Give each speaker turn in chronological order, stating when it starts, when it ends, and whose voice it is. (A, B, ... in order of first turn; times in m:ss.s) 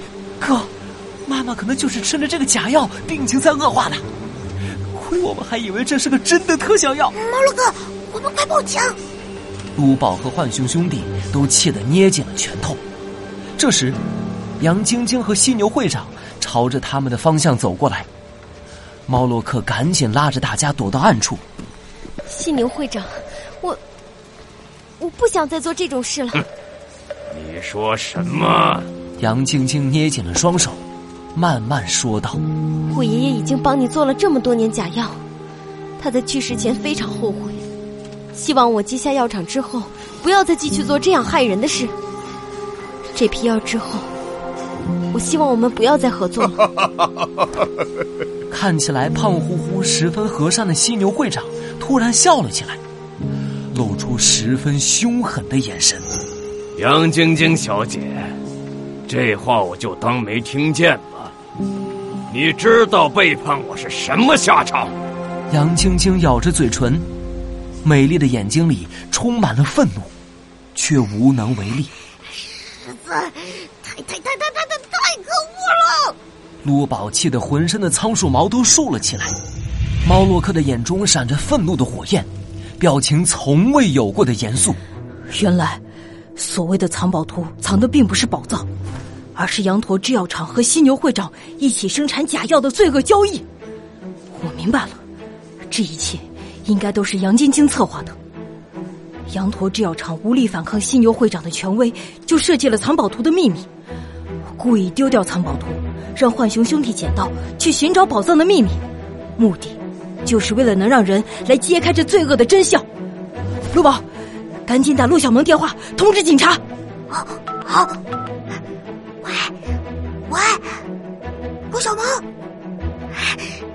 0:00.4-0:00.7 A
0:01.2-0:04.0 A
0:04.9-0:07.1 A
0:07.2-0:09.0 B
0:09.8-0:12.8 A
0:13.6-0:14.0 A
0:14.6-0:18.1 A
0:19.1-0:21.4 A
0:22.3-0:23.8 C
0:25.0-0:26.4 C
0:27.3-0:28.9 D
0:29.2-0:30.8 A
0:31.3-0:32.4 A
0:32.9-0:35.2 C
0:36.0-0:37.6 C
0:38.3-0:41.9 C
0:43.1-0:44.1 C
0:45.1-0:46.6 C
0:48.5-0:52.8 A
0:53.7-0:56.1 A
0:56.8-0:58.3 D
0:59.1-1:01.3 D
1:02.3-1:04.9 D
1:05.5-1:07.0 A
1:07.8-1:10.1 A
1:10.7-1:11.9 A
1:12.7-1:16.1 B
1:16.6-1:19.3 A
1:20.0-1:24.8 A
1:25.3-1:25.8 E
1:26.4-1:28.7 E
1:29.3-1:33.4 E
1:34.3-1:35.0 E
1:35.7-1:38.2 E
1:39.3-1:43.6 E
1:44.5-1:48.8 E
1:49.4-1:52.8 E
1:53.7-1:54.0 E
1:54.6-1:56.6 E
1:57.1-1:58.0 B
1:59.2-1:59.5 B
2:00.3-2:00.8 B
2:01.7-2:02.2 B
2:03.2-2:03.4 B